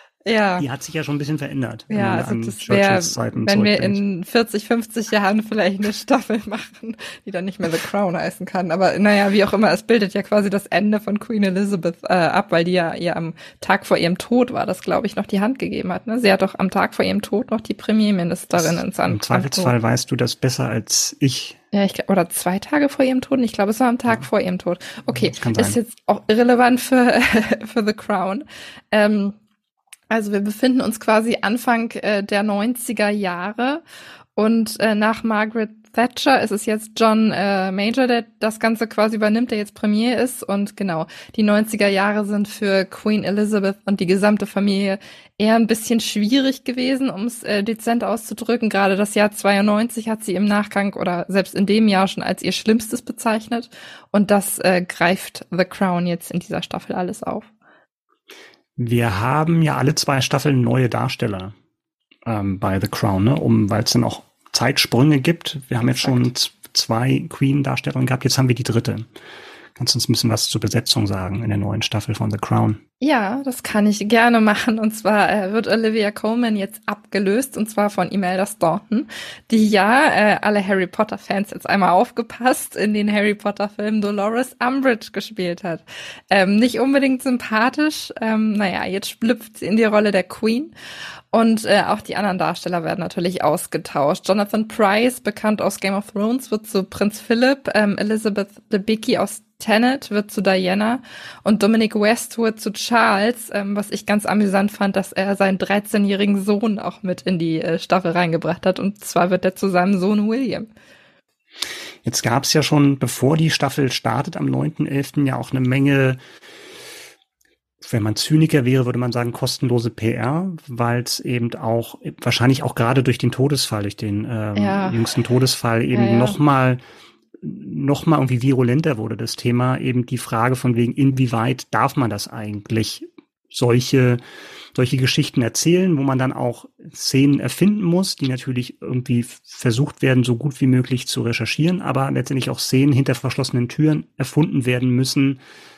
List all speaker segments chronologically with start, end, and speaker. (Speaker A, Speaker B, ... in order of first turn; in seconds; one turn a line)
Speaker A: 0.2-0.7
Speaker B: 0.6-4.0
Speaker A: 1.9-19.7
Speaker B: 18.6-21.6
Speaker A: 21.7-29.3
Speaker B: 25.1-25.8
Speaker A: 30.1-33.8
Speaker A: 34.4-57.5
Speaker B: 58.8-61.5
Speaker B: 62.2-69.1
Speaker B: 69.8-72.8
Speaker A: 73.0-90.7
Speaker A: 91.3-110.7
Speaker B: 112.0-116.2
Speaker B: 117.8-126.8
Speaker A: 124.5-125.0
Speaker A: 125.9-126.3
Speaker B: 127.4-134.2
Speaker B: 134.7-145.4